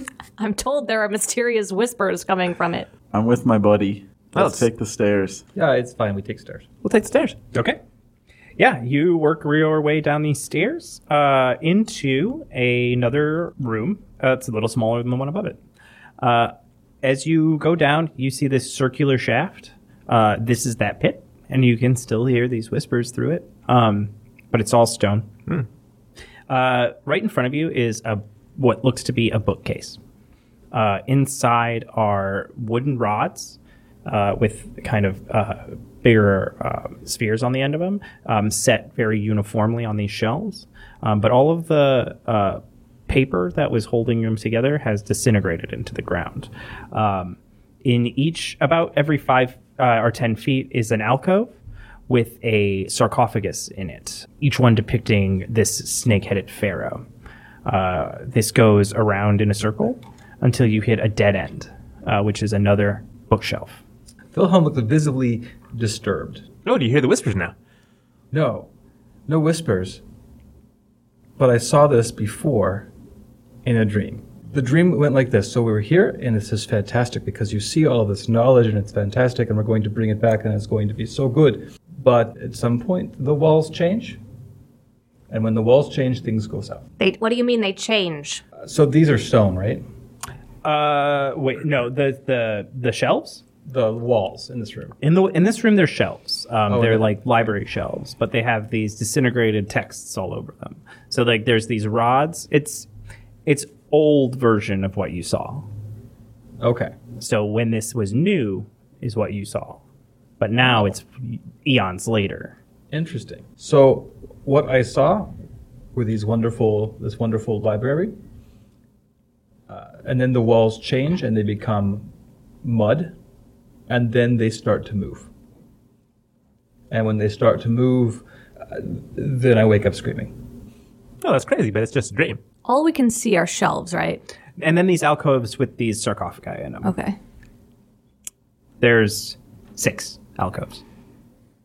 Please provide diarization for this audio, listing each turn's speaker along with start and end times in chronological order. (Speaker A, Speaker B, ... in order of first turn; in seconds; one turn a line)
Speaker A: 0.4-2.9
Speaker B: 3.1-5.4
Speaker C: 4.3-4.7
Speaker D: 5.5-6.7
Speaker C: 6.8-7.4
Speaker E: 7.5-7.8
Speaker E: 8.6-15.6
Speaker E: 16.2-25.3
Speaker E: 26.5-30.0
Speaker E: 30.7-51.5
Speaker E: 52.1-57.1
Speaker E: 57.6-63.8
Speaker D: 64.3-66.5
Speaker C: 66.7-67.5
Speaker D: 68.3-68.7
Speaker D: 69.3-70.0
Speaker D: 71.4-72.9
Speaker D: 73.6-84.2
Speaker D: 85.3-86.8
Speaker A: 87.0-88.4
Speaker D: 88.6-89.8
Speaker E: 90.6-93.4
Speaker D: 93.7-95.0
Speaker E: 95.0-102.9
Speaker D: 96.7-97.1
Speaker E: 103.5-105.7
Speaker D: 106.6-107.0
Speaker E: 107.2-109.8
Speaker E: 110.4-112.6
Speaker D: 112.9-115.4
Speaker D: 115.9-118.2
Speaker D: 119.7-122.1
Speaker D: 122.6-123.2
Speaker D: 123.9-125.3
Speaker D: 126.9-130.4
Speaker C: 131.2-132.4
Speaker A: 132.7-134.2
Speaker E: 134.6-136.9
Speaker A: 136.8-137.2
Speaker E: 138.8-140.8